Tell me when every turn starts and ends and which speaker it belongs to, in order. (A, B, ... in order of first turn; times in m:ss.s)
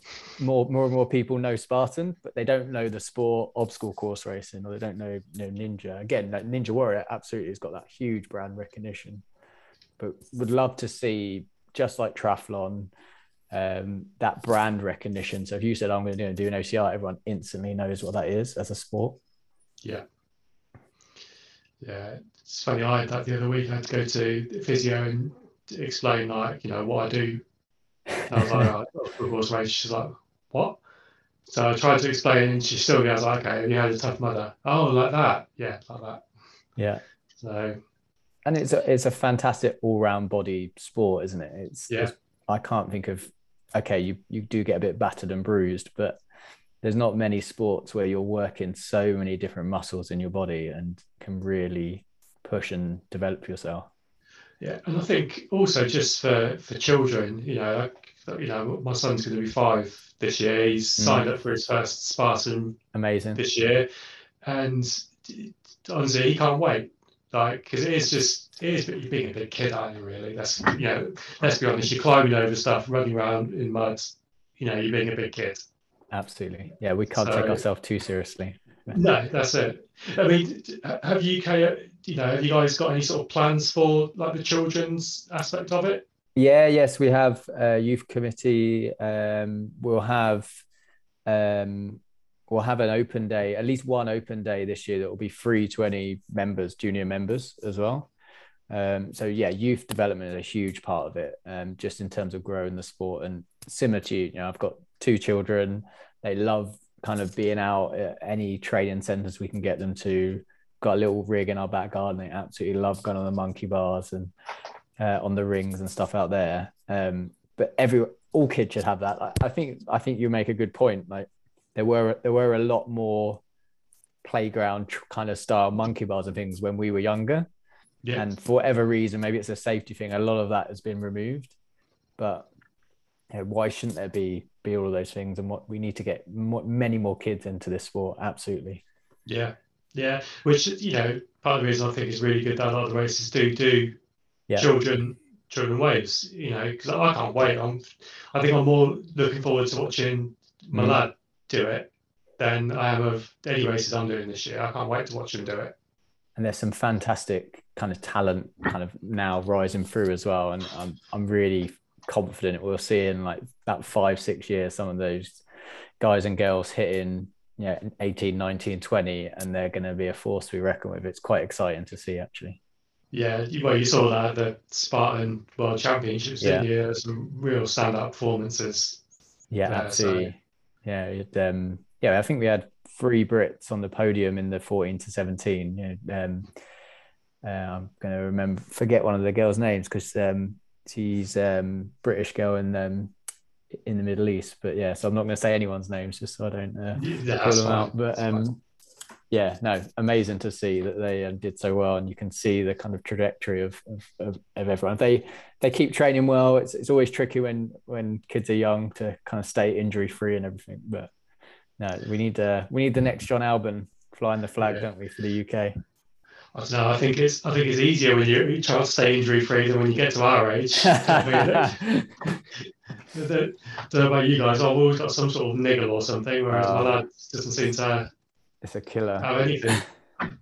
0:00.4-0:09.2 A
0:10.0-0:12.9 A
0:13.5-0:19.2 A
0:21.8-0:27.4 B
0:28.3-0:30.8 B
0:28.4-0:28.7 A
0:31.5-0:36.2 B
0:36.8-0:37.0 A
0:37.4-0:37.8 B
0:38.4-0:46.2 A
0:46.8-0:53.9 A
0:54.6-1:02.8 B
1:01.0-1:01.3 A
1:02.9-1:03.4 A
1:03.4-1:03.9 B
1:04.4-1:15.6 B
1:16.1-1:19.0 A
1:17.2-1:17.6 B
1:18.9-1:26.0 B
1:26.4-1:30.6 A
1:31.3-1:38.1 A
1:38.7-1:54.3 A
1:55.0-2:03.4 A
2:04.2-2:07.5 A
2:08.2-2:11.6 A
2:12.2-2:12.5 A
2:13.3-2:18.8 A
2:19.3-2:24.0 B
2:24.6-2:35.7 B
2:30.7-2:31.0 A
2:36.4-2:45.4 A
2:46.0-2:52.6 A
2:53.1-2:59.0 B
2:56.4-2:56.7 A
2:59.5-3:06.5 A
2:59.7-3:00.3 B
3:07.4-3:13.1 A
3:13.8-3:18.6 A
3:17.0-3:18.4 B
3:19.3-3:31.1 A
3:31.8-3:35.8 A
3:36.6-3:42.0 B
3:40.8-3:42.1 A
3:43.1-3:48.1 B
3:46.5-3:47.0 A
3:48.6-3:49.3 A
3:49.2-3:49.8 B